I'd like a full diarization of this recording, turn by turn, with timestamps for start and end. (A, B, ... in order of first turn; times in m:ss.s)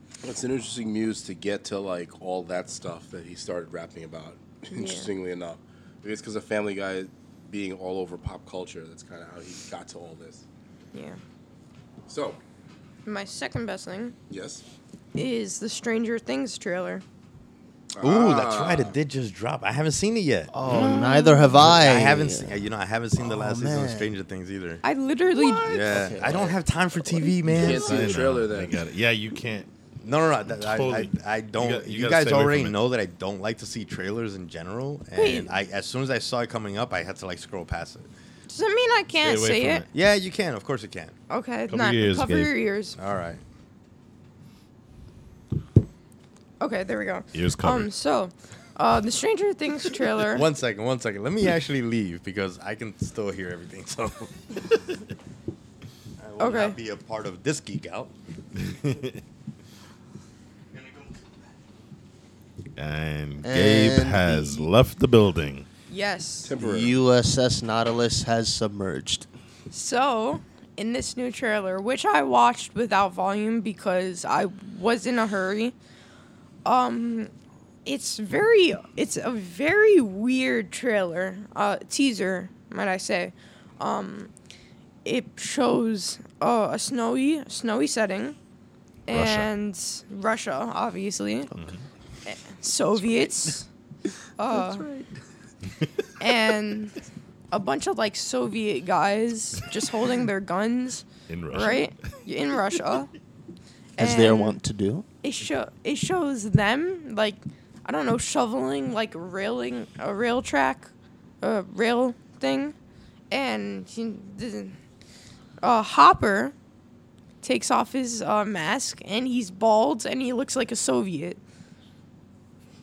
0:00.2-0:10.4 A
0:04.7-0:05.1 B
0:10.9-0:11.2 B
0:12.1-0:12.4 A
0:13.0-0:14.1 B
0:14.3-0:14.6 A
0:15.1-0:17.0 B
0:17.9-0:19.0 A
0:18.0-0:21.0 C
0:20.5-0:22.6 D
0:20.7-0:21.7 B
0:21.5-0:24.8 C
0:23.2-0:24.1 D
0:24.8-0:25.9 B
0:25.5-0:26.1 E
0:25.6-0:28.2 C
0:25.8-0:26.5 D
0:27.5-0:28.8 A
0:27.5-0:29.7 E
0:30.0-0:38.1 C
0:30.4-0:32.8 E
0:35.1-0:35.5 B
0:38.5-0:39.8 B
0:39.2-0:39.9 E
0:39.9-0:41.2 C
0:41.3-0:43.0 B
0:41.7-0:42.5 E
0:43.0-0:43.4 C
0:46.6-0:50.4 B
0:47.3-0:47.9 E
0:50.2-0:54.6 C
0:56.2-0:58.1 C
0:56.4-0:56.8 B
0:58.7-0:59.1 E
1:00.7-1:01.2 C
1:02.8-1:05.7 E
1:03.4-1:04.7 D
1:05.9-1:06.5 B
1:06.4-1:07.0 A
1:06.6-1:09.3 D
1:09.7-1:15.7 B
1:16.6-1:17.3 B
1:17.8-1:24.3 B
1:25.0-1:28.4 B
1:29.1-1:31.5 B
1:29.1-1:29.5 E
1:31.5-1:31.8 E
1:32.2-1:33.7 B
1:34.4-1:34.9 B
1:36.2-1:36.9 B
1:37.5-1:43.1 B
1:41.3-1:41.9 E
1:44.0-1:44.6 B
1:44.0-1:45.0 D
1:45.2-1:50.9 B
1:51.4-1:52.7 B
1:53.3-1:54.8 B
1:55.6-1:56.5 B
1:57.4-2:01.4 B